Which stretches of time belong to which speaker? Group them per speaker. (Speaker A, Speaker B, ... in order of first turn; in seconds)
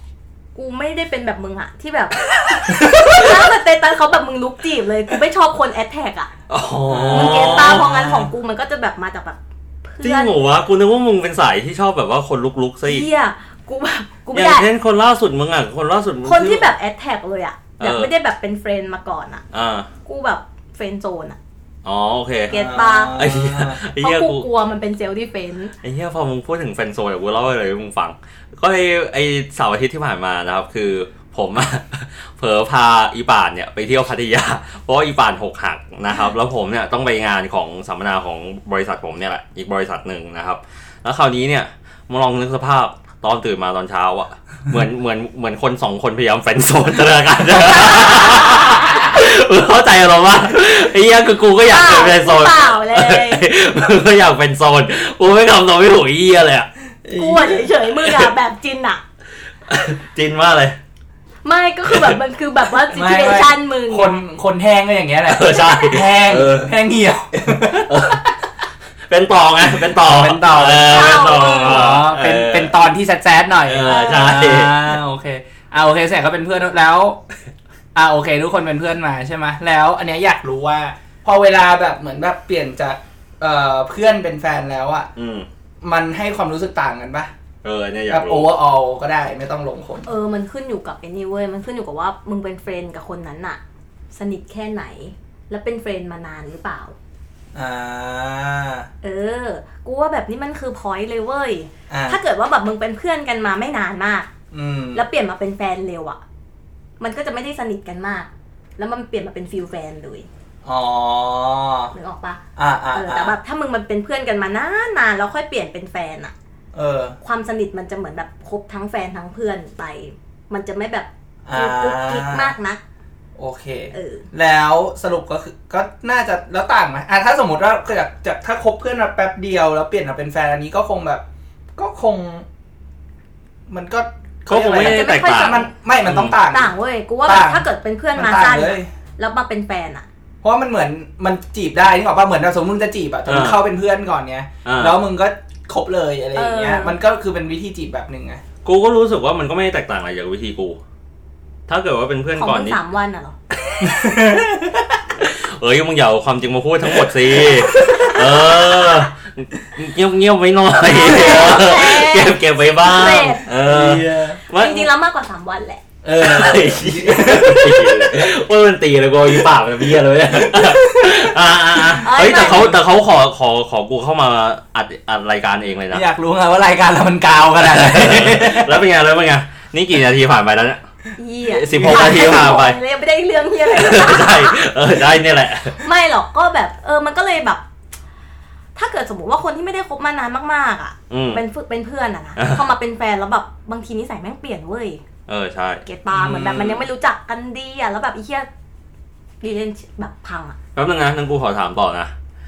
Speaker A: 0.6-6.3, 7.1-10.4, 12.8-14.7, 16.2-19.4, 20.1-21.4, 22.5-23.2, 24.0-25.7, 47.5-49.1, 51.6-53.5, 57.1-59.0, 61.5-64.2, 65.5-65.8, 70.8-71.9, 73.8-74.4, 90.0-93.6, 94.1-97.0, 99.0-104.3, 104.9-106.2, 107.0-110.3, 111.9-112.4, 112.9-116.3, 117.2-122.8, 123.9-124.3, 134.8-135.7, 136.4-140.1, 146.3-147.0, 152.3-153.4, 160.8-163.5, 164.5-165.8, 172.0-172.8, 181.2-184.6, 185.7-187.6, 188.8-195.0, 195.8-198.5, 199.4-200.6
Speaker B: 2.7-3.3, 6.9-8.1, 22.5-23.8, 57.0-57.7, 62.9-68.3, 69.9-77.2, 78.0-85.1, 85.8-87.3, 88.1-90.1, 97.5-98.9, 101.9-102.2, 104.5-105.0, 110.7-111.9, 112.6-113.4, 116.7-117.2, 121.5-122.5, 123.4-131.2, 131.8-132.4, 133.7-136.7, 137.3-138.9, 140.4-148.4, 153.8-155.0, 157.0-158.6, 163.6-164.4, 166.0-168.3, 170.4-171.3, 175.9-178.8, 181.7-182.6, 196.1-196.8
Speaker C: 6.5-8.2, 10.0-13.1, 14.3-16.7, 17.8-18.1, 19.5-19.9, 21.9-24.5, 25.8-56.7, 59.7-60.8, 61.9-62.2, 65.3-66.8, 67.4-68.2, 69.1-72.8, 73.7-75.0, 85.2-85.5, 87.6-88.5, 134.5-136.4, 143.3-143.6, 144.7-145.0, 148.7-150.8, 151.7-152.8, 155.2-164.9, 166.2-176.1, 177.6-180.8, 181.5-182.8, 183.7-185.8, 191.1-191.4, 192.4-192.7, 195.3-195.8, 200.8-202.1